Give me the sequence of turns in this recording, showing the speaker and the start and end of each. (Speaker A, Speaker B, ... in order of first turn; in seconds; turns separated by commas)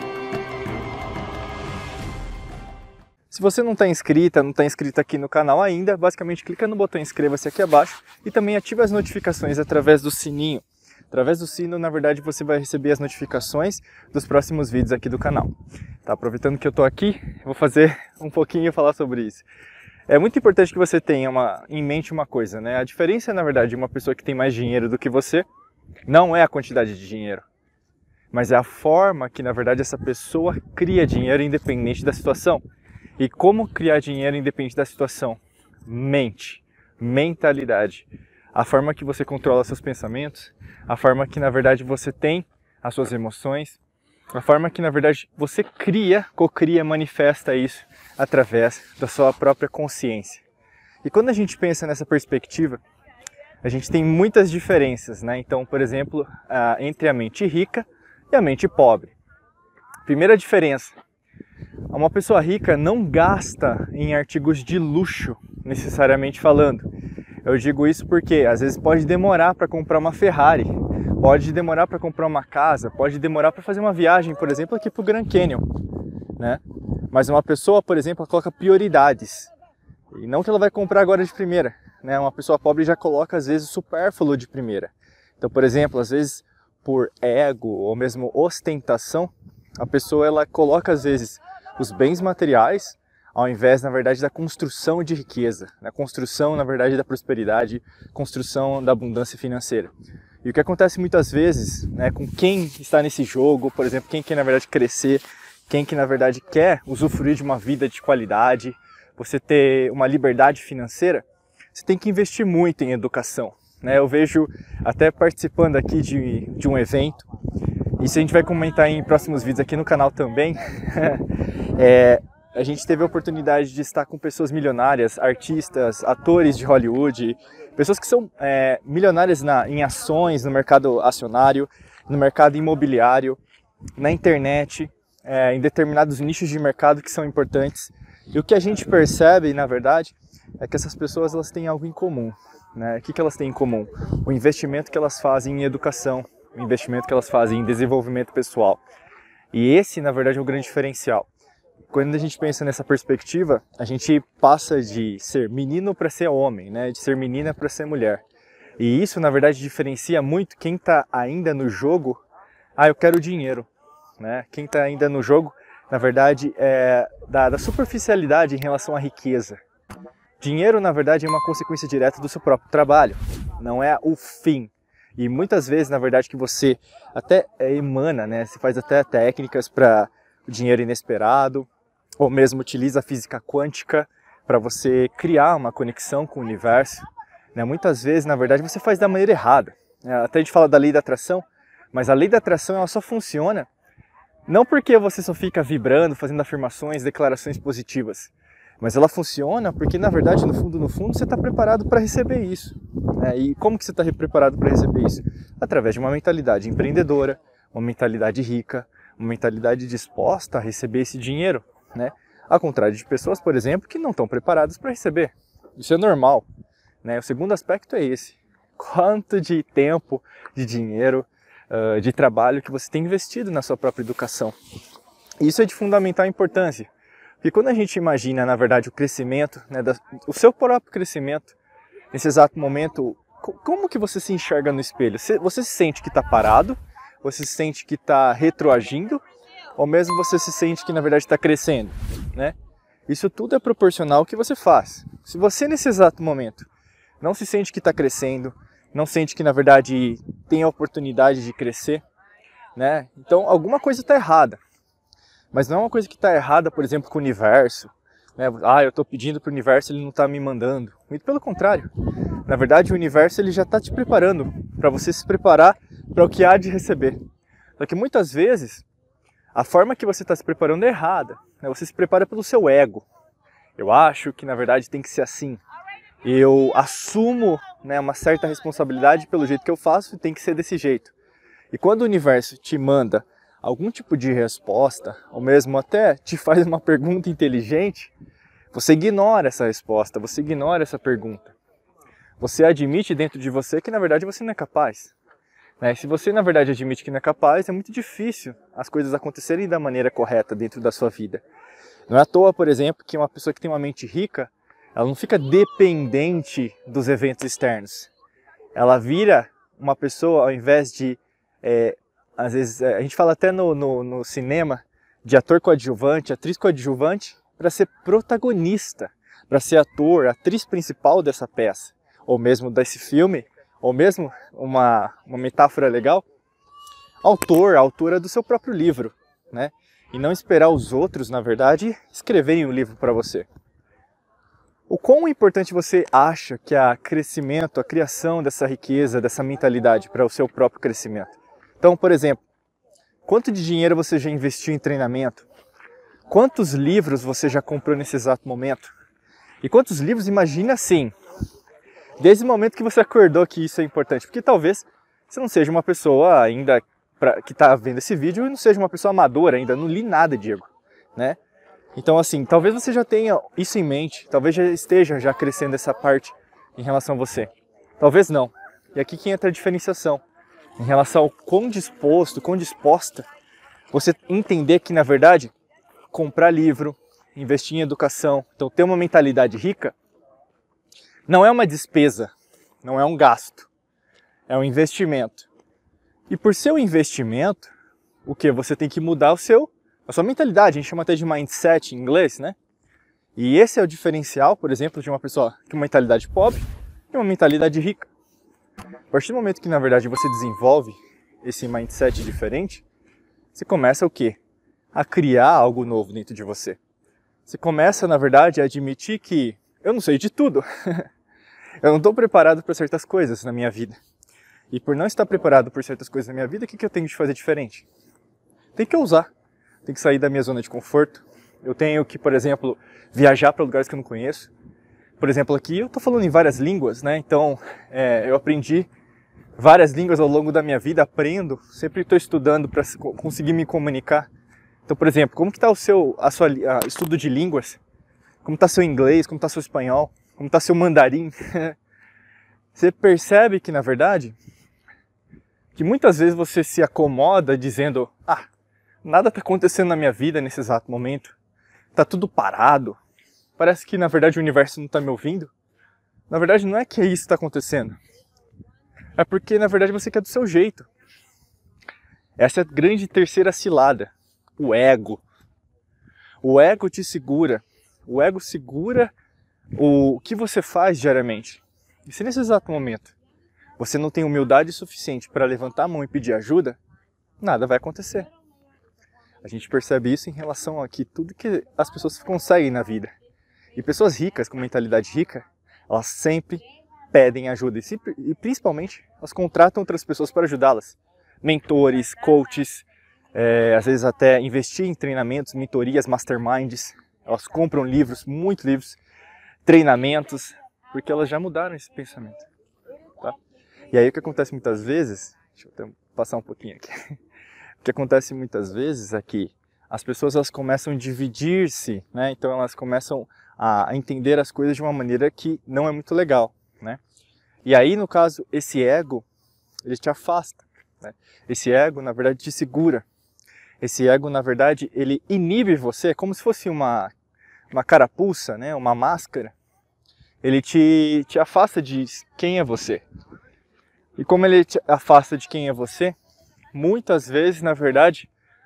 Speaker A: 3.3-19.5, Speaker A: 20.1-25.5, Speaker A: 26.1-27.4, Speaker A: 28.3-32.6, Speaker A: 33.2-43.8, Speaker A: 44.3-50.4, Speaker A: 51.0-52.8, Speaker A: 53.6-59.1, Speaker A: 60.0-61.0, Speaker A: 61.9-66.9, Speaker A: 67.4-75.8, Speaker A: 76.4-79.5, Speaker A: 80.1-99.9, Speaker A: 100.4-117.3, Speaker A: 118.0-133.4, Speaker A: 134.0-148.8, Speaker A: 149.5-151.3, Speaker A: 151.9-158.2, Speaker A: 158.8-162.2, Speaker A: 162.8-169.6, Speaker A: 170.4-181.7, Speaker A: 182.2-193.7, Speaker A: 194.5-216.5, Speaker A: 217.0-224.6, Speaker A: 225.4-226.9, Speaker A: 227.4-231.6, Speaker A: 232.1-239.2, Speaker A: 239.8-242.6, Speaker A: 243.1-246.7, Speaker A: 247.2-252.0, Speaker A: 252.8-254.6, Speaker A: 255.5-261.9, Speaker A: 262.5-267.2, Speaker A: 267.8-268.9, Speaker A: 269.5-273.1, Speaker A: 273.8-275.6, Speaker A: 276.2-281.1, Speaker A: 281.7-288.1, Speaker A: 288.7-291.6, Speaker A: 292.4-295.1, Speaker A: 295.8-301.4, Speaker A: 302.1-308.1, Speaker A: 308.8-326.2, Speaker A: 327.2-333.5, Speaker A: 334.9-342.4, Speaker A: 343.2-345.5, Speaker A: 346.3-348.9, Speaker A: 349.6-351.1, Speaker A: 352.2-361.4, Speaker A: 362.0-370.2, Speaker A: 370.8-373.3, Speaker A: 373.9-375.5, Speaker A: 376.1-380.0, Speaker A: 381.3-383.7, Speaker A: 384.5-385.5, Speaker A: 386.3-387.7, Speaker A: 388.3-392.6, Speaker A: 393.4-398.1, Speaker A: 399.1-402.8, Speaker A: 403.5-404.4, Speaker A: 404.9-406.8, Speaker A: 407.5-411.1, Speaker A: 411.8-414.0, Speaker A: 414.7-417.9, Speaker A: 418.8-419.3, Speaker A: 419.9-424.5, Speaker A: 425.2-428.9, Speaker A: 429.6-434.3, Speaker A: 434.9-437.8, Speaker A: 438.4-441.8, Speaker A: 442.7-444.4, Speaker A: 445.8-448.5, Speaker A: 449.0-451.4, Speaker A: 451.9-453.0, Speaker A: 453.6-455.5, Speaker A: 456.3-458.0, Speaker A: 459.2-460.9, Speaker A: 462.4-465.2, Speaker A: 466.4-469.1, Speaker A: 469.8-473.1, Speaker A: 473.8-476.8, Speaker A: 477.4-478.3, Speaker A: 479.4-483.1, Speaker A: 483.8-499.0, Speaker A: 499.6-502.5, Speaker A: 503.9-507.0, Speaker A: 507.8-517.0, Speaker A: 517.6-519.3, Speaker A: 519.9-523.1, Speaker A: 523.8-527.1, Speaker A: 527.7-529.5, Speaker A: 530.4-533.0, Speaker A: 534.2-536.2, Speaker A: 536.7-538.3